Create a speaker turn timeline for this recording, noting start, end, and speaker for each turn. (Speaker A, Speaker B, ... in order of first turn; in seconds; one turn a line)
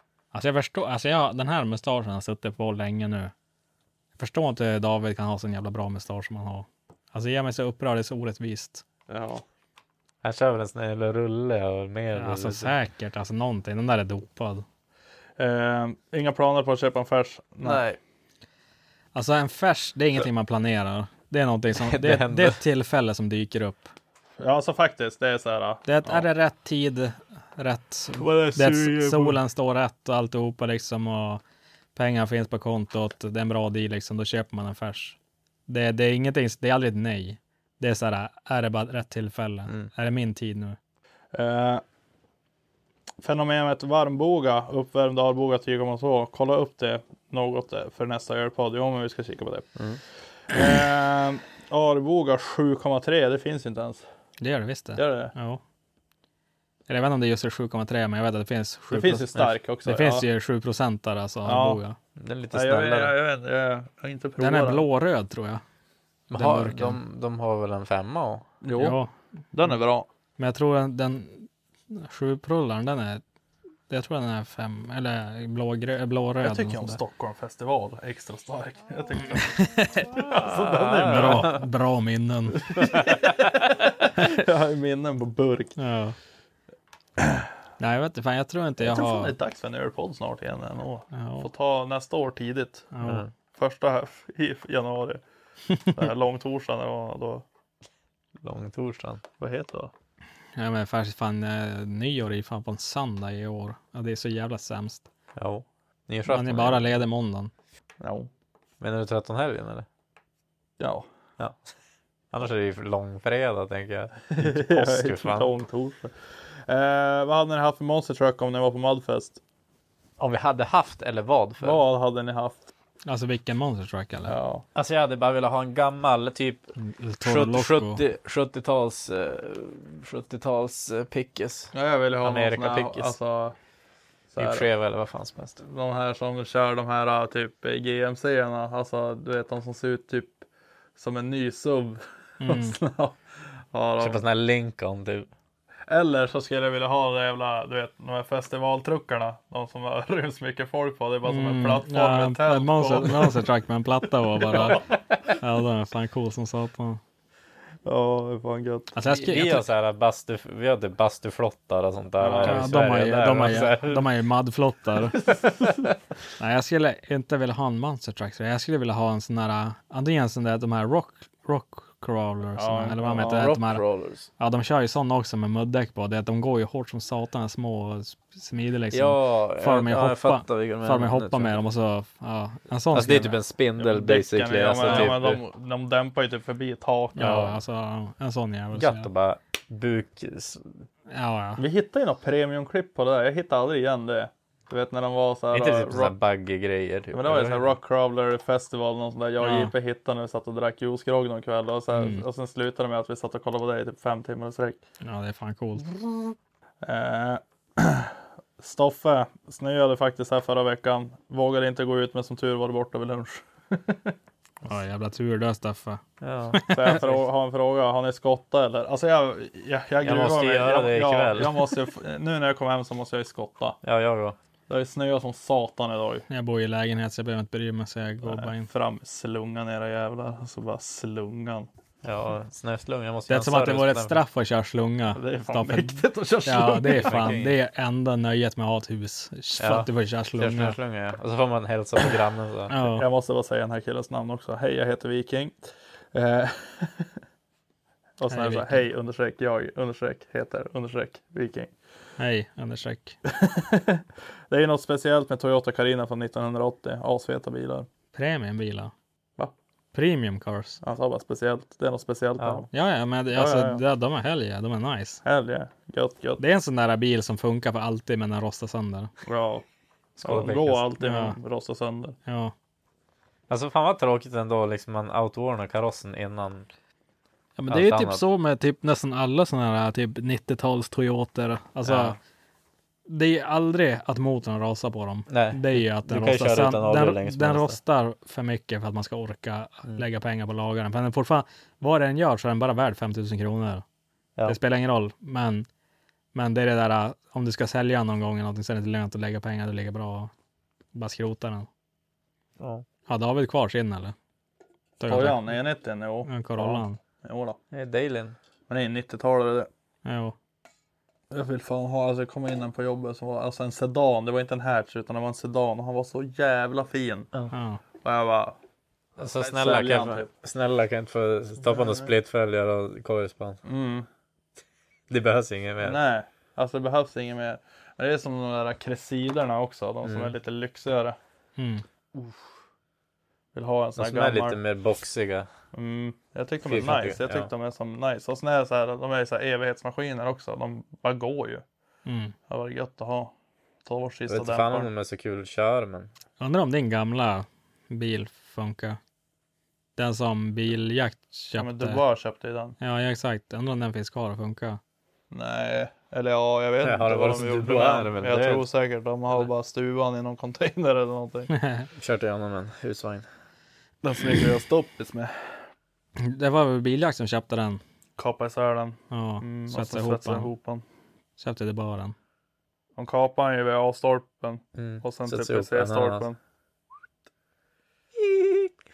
Speaker A: 0.3-3.3
Speaker A: 4.2-8.8
Speaker B: 9.1-9.4
Speaker C: 10.2-12.7
Speaker A: 12.2-14.7
Speaker B: 15.4-17.8
Speaker C: 17.6-18.0
Speaker A: 19.1-23.9
Speaker C: 21.8-22.6
Speaker B: 24.4-26.2
Speaker A: 25.9-31.4
Speaker C: 28.2-29.4
Speaker A: 31.9-35.2
Speaker A: 35.7-40.8
Speaker B: 41.3-41.8
Speaker B: 43.2-49.8
Speaker B: 50.5-54.1
Speaker A: 54.4-55.6
Speaker B: 55.0-55.3
Speaker A: 56.9-59.3
Speaker B: 58.9-60.3
Speaker A: 59.9-62.0
Speaker B: 61.5-61.8
Speaker C: 62.2-63.1
Speaker B: 62.5-64.9
Speaker A: 64.4-65.6
Speaker C: 66.3-68.4
Speaker A: 66.3-67.0
Speaker B: 68.6-69.0
Speaker A: 68.8-69.1
Speaker B: 69.5-70.1
Speaker A: 70.4-73.2
Speaker A: 73.9-77.0
Speaker B: 76.4-81.6
Speaker A: 79.5-80.0
Speaker C: 80.4-81.6
Speaker A: 81.1-82.8
Speaker B: 82.8-85.8
Speaker C: 83.1-83.5
Speaker A: 85.8-86.2
Speaker A: 87.8-89.3
Speaker B: 88.8-92.9
Speaker A: 91.1-91.5
Speaker A: 92.9-93.3
Speaker C: 93.0-93.3
Speaker B: 93.5-95.2
Speaker B: 95.9-97.5
Speaker C: 98.4-99.2
Speaker B: 99.4-99.9
Speaker A: 100.6-105.1
Speaker C: 105.4-106.9
Speaker A: 106.3-107.5
Speaker B: 108.0-108.3
Speaker C: 108.8-109.9
Speaker B: 110.8-111.1
Speaker C: 112.3-115.5
Speaker B: 114.3-119.4
Speaker C: 120.2-121.8
Speaker B: 121.6-122.7
Speaker A: 123.1-124.3
Speaker B: 124.3-124.7
Speaker C: 124.8-133.1
Speaker A: 126.8-128.0
Speaker B: 131.7-133.6
Speaker B: 134.3-134.7
Speaker C: 134.4-135.6
Speaker B: 135.6-140.4
Speaker B: 141.0-143.2
Speaker A: 142.4-142.8
Speaker B: 143.7-144.2
Speaker C: 144.0-145.3
Speaker B: 145.9-153.5
Speaker A: 151.2-154.8
Speaker B: 154.4-154.8
Speaker A: 155.4-157.0
Speaker B: 157.8-158.9
Speaker A: 158.9-159.7
Speaker C: 159.1-164.1
Speaker B: 162.2-162.7
Speaker A: 162.4-165.3
Speaker A: 166.4-173.8
Speaker B: 172.6-173.4
Speaker C: 173.1-174.3
Speaker A: 174.4-183.4
Speaker C: 178.9-181.5
Speaker C: 182.9-185.4
Speaker B: 183.8-187.6
Speaker A: 184.8-185.2
Speaker A: 187.2-189.1
Speaker C: 188.8-190.8
Speaker A: 191.1-191.6
Speaker B: 191.6-196.1
Speaker C: 195.5-197.8
Speaker B: 197.1-204.8
Speaker A: 199.4-199.7
Speaker A: 201.9-202.2
Speaker A: 205.0-205.9
Speaker B: 206.8-214.2
Speaker A: 214.7-216.0
Speaker C: 216.2-217.3
Speaker A: 216.5-217.0
Speaker B: 216.7-223.8
Speaker C: 220.0-221.8
Speaker C: 223.8-224.4
Speaker B: 224.7-226.2
Speaker A: 226.3-228.7
Speaker B: 228.3-231.7
Speaker C: 232.0-234.2
Speaker A: 233.3-240.8
Speaker B: 235.1-237.1
Speaker C: 237.0-237.6
Speaker C: 239.6-242.7
Speaker A: 242.7-243.1
Speaker B: 242.8-245.6
Speaker B: 246.1-247.1
Speaker B: 248.2-251.7
Speaker A: 248.3-248.8
Speaker A: 252.2-253.2
Speaker B: 253.3-257.9
Speaker A: 258.1-258.9
Speaker A: 259.9-260.8
Speaker B: 260.8-262.7
Speaker C: 262.4-262.6
Speaker A: 262.7-265.2
Speaker B: 263.3-263.8
Speaker B: 265.2-266.4
Speaker A: 266.4-269.1
Speaker B: 269.2-269.6
Speaker C: 270.2-270.9
Speaker B: 270.2-272.2
Speaker A: 271.0-271.4
Speaker A: 272.3-272.5
Speaker C: 273.5-276.7
Speaker A: 277.6-282.2
Speaker C: 277.7-278.2
Speaker C: 281.8-282.2
Speaker A: 283.1-293.8
Speaker C: 285.3-287.8
Speaker A: 294.4-295.7
Speaker A: 296.3-300.3
Speaker A: 300.9-301.7
Speaker C: 302.6-302.9
Speaker A: 303.1-304.1
Speaker A: 305.0-305.5
Speaker B: 305.1-307.6
Speaker A: 306.3-307.0
Speaker C: 307.7-308.4
Speaker B: 308.7-309.7
Speaker A: 310.1-310.4
Speaker B: 311.3-317.3
Speaker A: 317.5-317.8
Speaker B: 318.0-318.6
Speaker B: 319.2-320.3
Speaker C: 319.2-323.6
Speaker B: 321.7-322.1
Speaker B: 323.6-324.1
Speaker C: 325.1-326.0
Speaker B: 325.8-331.2
Speaker C: 330.0-330.3
Speaker A: 331.6-331.9
Speaker B: 333.6-334.6
Speaker C: 334.0-335.5
Speaker B: 335.7-341.6
Speaker C: 336.6-337.5
Speaker A: 342.1-342.3
Speaker B: 342.5-343.3
Speaker B: 343.9-344.9
Speaker C: 344.3-346.1
Speaker A: 346.4-349.0
Speaker A: 350.0-352.0
Speaker B: 351.6-352.8
Speaker A: 352.8-354.8
Speaker B: 355.3-361.5
Speaker C: 356.8-358.7
Speaker A: 361.5-361.9
Speaker C: 362.0-363.3
Speaker B: 364.0-365.5
Speaker A: 366.2-367.8
Speaker B: 368.2-370.8
Speaker A: 369.1-370.5
Speaker A: 371.4-372.1
Speaker B: 373.0-376.4
Speaker C: 374.8-376.3
Speaker C: 378.3-378.7